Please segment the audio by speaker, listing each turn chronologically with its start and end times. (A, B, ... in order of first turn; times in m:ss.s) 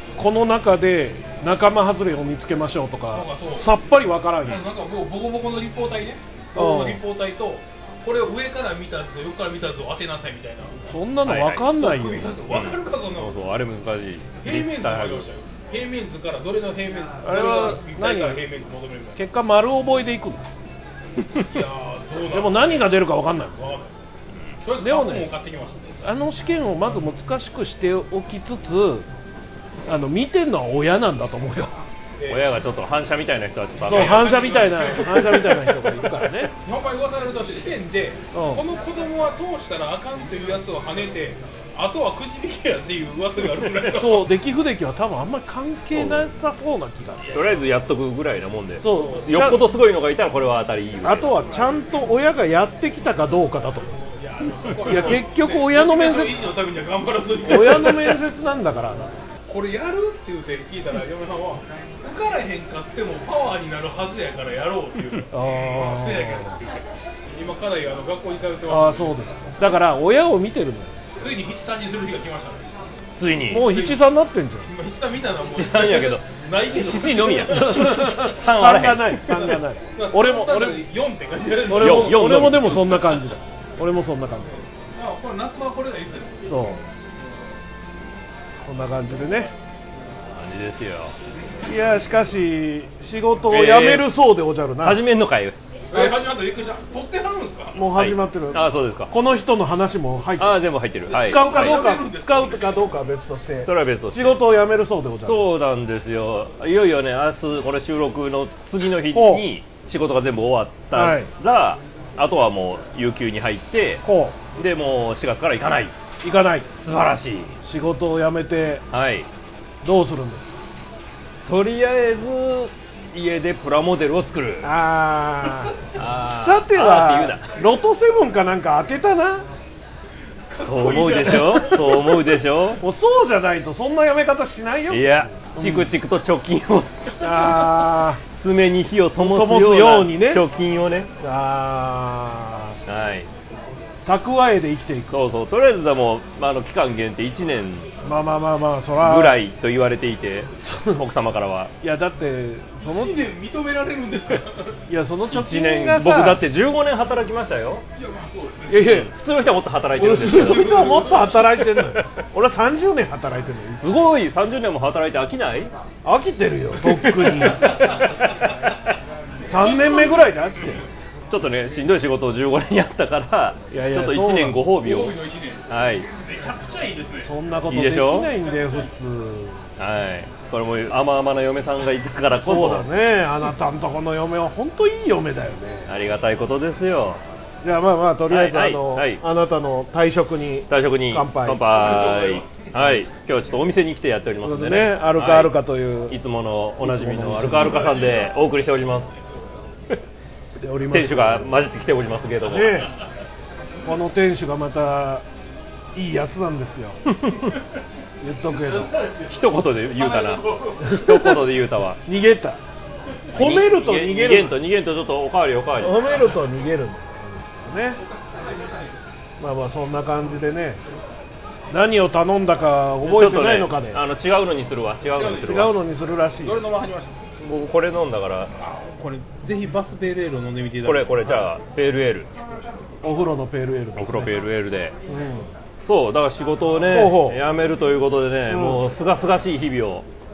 0:00.2-0:04.6 A
0:03.1-0:03.7 B
0:04.4-0:10.8 B
0:06.6-0:07.0 A
0:10.8-0:12.4 A
0:11.2-0:11.7 C
0:11.7-0:13.4 B
0:12.5-0:15.3 C
0:14.4-0:19.2 B
0:17.2-0:18.4 A
0:19.2-0:20.5 A
0:21.4-0:23.0 B
0:22.3-0:23.6 A
0:23.5-0:23.9 B
0:24.6-0:26.0 B
0:24.8-0:25.3 A
0:26.0-0:29.1 A
0:29.9-0:31.8 A
0:32.2-0:32.5 B
0:32.3-0:34.4 C
0:33.8-0:44.3 B
0:33.8-0:36.5 A
0:38.3-0:38.6 A
0:43.9-0:47.2 A
0:45.9-0:46.3 C
0:47.2-0:47.7 B
0:47.3-0:51.4 C
0:48.8-0:49.6 A
0:51.0-0:53.9 A
0:54.2-0:58.2 B
0:54.8-0:56.4 A
0:57.4-0:59.1 A
0:59.5-1:09.2 B
1:05.3-1:06.6 A
1:08.7-1:11.0 A
1:11.2-1:12.6 B
1:13.2-1:13.7 C
1:13.5-1:14.7 A
1:13.6-1:14.1 B
1:14.6-1:18.2 B
1:15.5-1:19.6 C
1:17.5-1:20.8 A
1:20.0-1:22.3 B
1:21.7-1:24.5 A
1:21.7-1:23.2 C
1:25.0-1:26.5 B
1:26.5-1:26.8 A
1:28.6-1:29.5 A
1:30.3-1:31.2 C
1:31.6-1:35.0 A
1:33.5-1:34.2 C
1:34.8-1:35.6 C
1:35.9-1:37.8 B
1:37.8-1:45.5 A
1:38.0-1:39.1 C
1:40.4-1:41.9 C
1:41.1-1:42.9 B
1:43.7-1:44.4 C
1:45.2-1:54.0 C
1:49.1-1:49.5 A
1:50.9-1:51.3 A
1:54.0-1:54.4 A
1:54.6-1:56.0 C
1:56.2-1:56.7 A
1:56.8-1:57.6 C
1:57.6-1:58.8 A
1:58.9-1:59.3 C
1:59.8-2:00.6 A
2:01.5-2:04.7 C
2:04.6-2:09.5 A
2:06.0-2:07.5 C
2:10.5-2:12.2 B
2:10.6-2:12.8 C
2:11.2-2:12.0 A
2:12.8-2:15.9 A
2:14.9-2:21.1 C
2:17.2-2:18.2 A
2:19.2-2:20.4 A
2:21.2-2:22.8 A
2:22.9-2:23.3 C
2:24.1-2:25.2 A
2:25.1-2:27.9 C
2:28.0-2:29.4 A
2:29.0-2:31.7 C
2:30.6-2:31.0 A
2:31.8-2:33.2 A
2:32.8-2:34.8 B
2:34.9-2:36.4 A
2:35.3-2:37.8 C
2:38.0-2:38.8 B
2:38.7-2:39.1 A
2:38.8-2:41.2 C
2:39.9-2:44.0 A
2:40.2-2:41.6 B
2:41.8-2:42.1 C
2:43.8-2:45.7 C
2:46.0-2:48.0 A
2:46.8-2:48.1 C
2:47.7-2:48.2 B
2:49.5-2:50.8 A
2:49.5-2:50.7 B
2:51.3-2:55.2 C
2:53.7-2:54.6 A
2:54.8-2:57.3 B
2:55.7-2:56.1 C
2:57.2-2:59.7 A
2:57.7-2:58.3 C
2:59.8-3:02.9 C
3:02.4-3:05.9 A
3:05.9-3:07.2 C
3:07.6-3:11.7 A
3:08.3-3:09.2 C
3:10.7-3:15.6 C
3:11.7-3:12.7 B
3:14.4-3:16.2 A
3:16.1-3:19.1 C
3:16.8-3:17.9 A
3:17.5-3:18.3 B
3:20.6-3:21.6 A
3:20.9-3:22.9 C
3:22.4-3:22.9 A
3:23.8-3:25.2 A
3:26.0-3:27.0 A
3:27.1-3:27.6 C
3:28.2-3:28.9 A
3:29.3-3:32.0 C
3:30.0-3:30.8 B
3:30.8-3:31.4 A
3:32.0-3:32.6 A
3:33.3-3:34.6 A
3:33.3-3:36.0 C
3:35.8-3:38.0 A
3:39.4-3:40.8 A
3:41.7-3:44.0 A
3:43.0-3:45.7 C
3:45.1-3:45.7 B
3:45.5-3:46.6 A
3:46.4-3:47.3 B
3:47.5-3:48.5 C
3:48.6-3:51.5 B
3:50.8-3:52.3 C
3:53.0-3:54.3 A
3:54.0-3:55.0 C
3:55.1-3:55.5 A
3:55.8-4:00.1 C
3:56.9-3:57.4 A
3:58.5-3:58.8 A